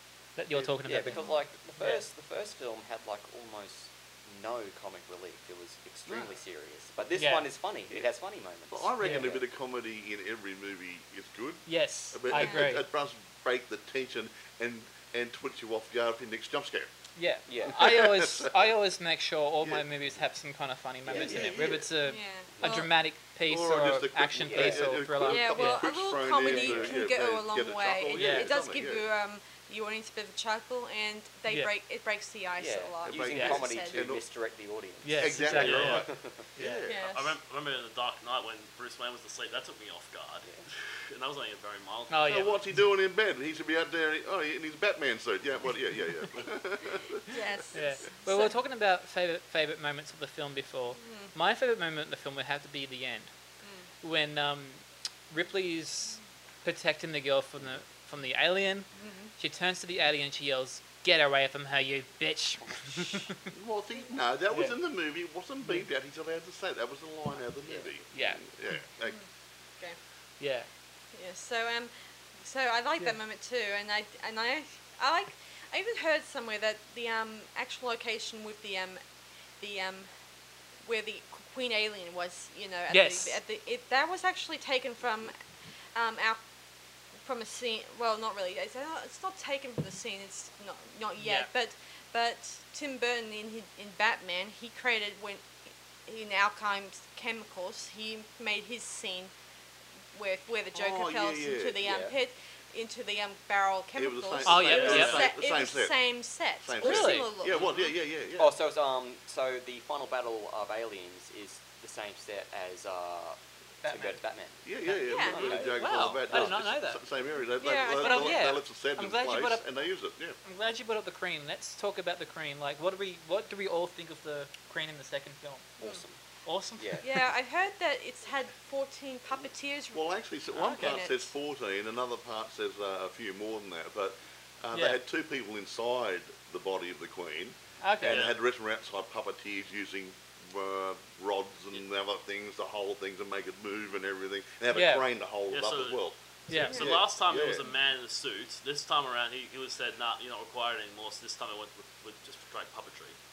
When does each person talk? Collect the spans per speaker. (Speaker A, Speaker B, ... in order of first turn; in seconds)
Speaker A: 0.3-1.2, 1.8-2.0, 7.1-7.5, 9.0-9.4, 11.7-12.9, 17.1-25.9, 28.1-28.5, 33.3-33.6, 35.0-36.8, 42.1-42.6, 47.7-53.3, 54.0-63.5, 68.1-68.8, 70.4-70.7, 82.9-83.4, 91.2-91.5, 104.4-105.3, 106.8-107.7, 113.8-114.2, 114.8-117.0, 117.8-119.6, 120.4-125.7, 126.4-127.2, 130.6-131.0, 134.7-135.0, 137.8-138.3, 144.7-145.1, 146.5-146.9
Speaker B: 0.5-9.4, 17.5-17.9, 21.0-21.9, 22.5-22.9, 24.4-24.9, 26.4-27.0, 32.6-36.5, 62.7-63.3, 101.8-102.1, 108.4-114.7, 115.2-116.6, 125.8-126.2, 126.8-127.0
Speaker C: 1.1-1.4, 12.3-12.7, 22.0-22.9, 25.2-34.1, 36.9-37.4, 47.3-48.6, 51.0-51.3, 53.6-53.9, 58.9-59.3, 71.1-79.0, 79.6-80.1, 80.8-85.3, 85.9-86.4, 87.2-95.5, 96.0-99.3, 100.1-107.7, 115.0-115.6, 117.6-118.5, 127.0-131.3, 146.5-146.9
Speaker D: 6.1-6.3, 8.7-16.9, 17.7-18.7, 19.6-19.9, 21.1-21.9, 23.5-29.1, 33.0-34.2, 35.2-37.1, 42.2-47.3, 63.5-69.2, 100.7-101.8, 103.9-106.0, 106.6-108.5, 114.6-120.4, 129.9-147.7
Speaker E: 35.5-36.0, 37.0-42.6, 104.6-105.2, 138.0-138.3, 145.5-146.0, 146.5-153.2